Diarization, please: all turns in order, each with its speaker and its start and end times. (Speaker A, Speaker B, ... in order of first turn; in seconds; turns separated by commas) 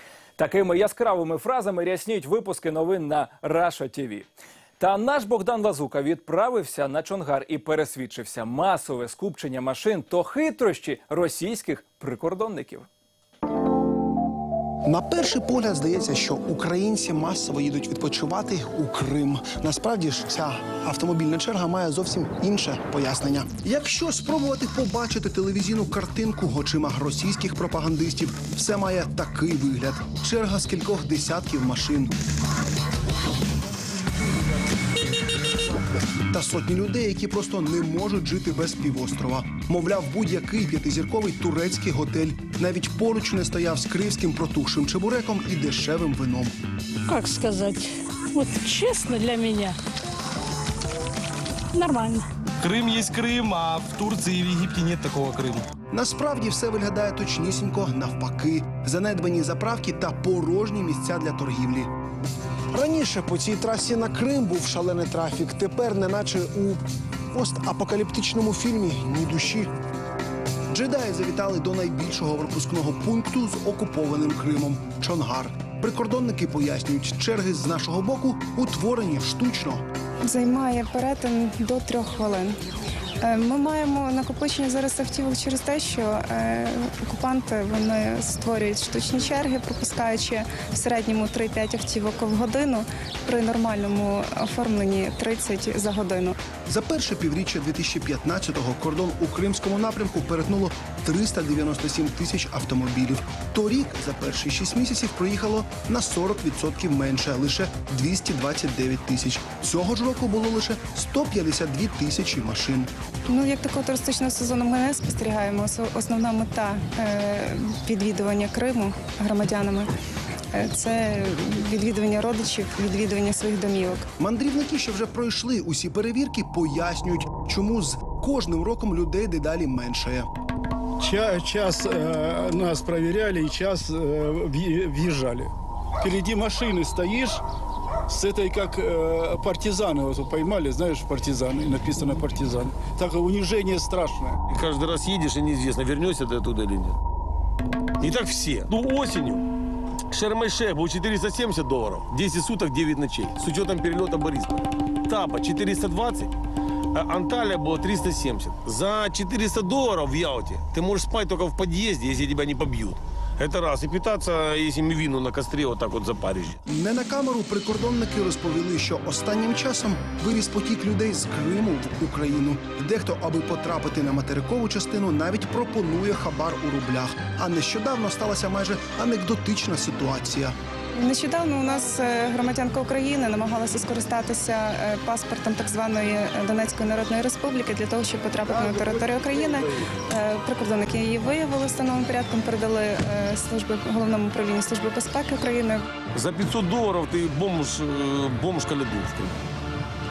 Speaker A: 0.4-4.3, Speaker A: 4.8-12.9, Speaker B: 14.8-32.1, Speaker B: 36.3-46.5, Speaker C: 47.1-49.8, Speaker C: 51.7-52.3, Speaker D: 52.6-55.7, Speaker B: 55.9-61.9, Speaker B: 62.7-69.7, Speaker B: 70.7-79.8, Speaker E: 80.2-82.6, Speaker E: 83.2-96.4, Speaker B: 96.7-112.9, Speaker E: 113.3-119.9, Speaker E: 120.5-124.1, Speaker B: 124.2-130.3, Speaker F: 131.0-137.4, Speaker F: 138.1-144.4, Speaker G: 144.5-147.0, Speaker G: 148.0-149.4, Speaker G: 150.1-156.3, Speaker G: 156.9-166.6, Speaker B: 166.7-180.6, Speaker E: 180.9-195.9, Speaker G: 196.1-199.4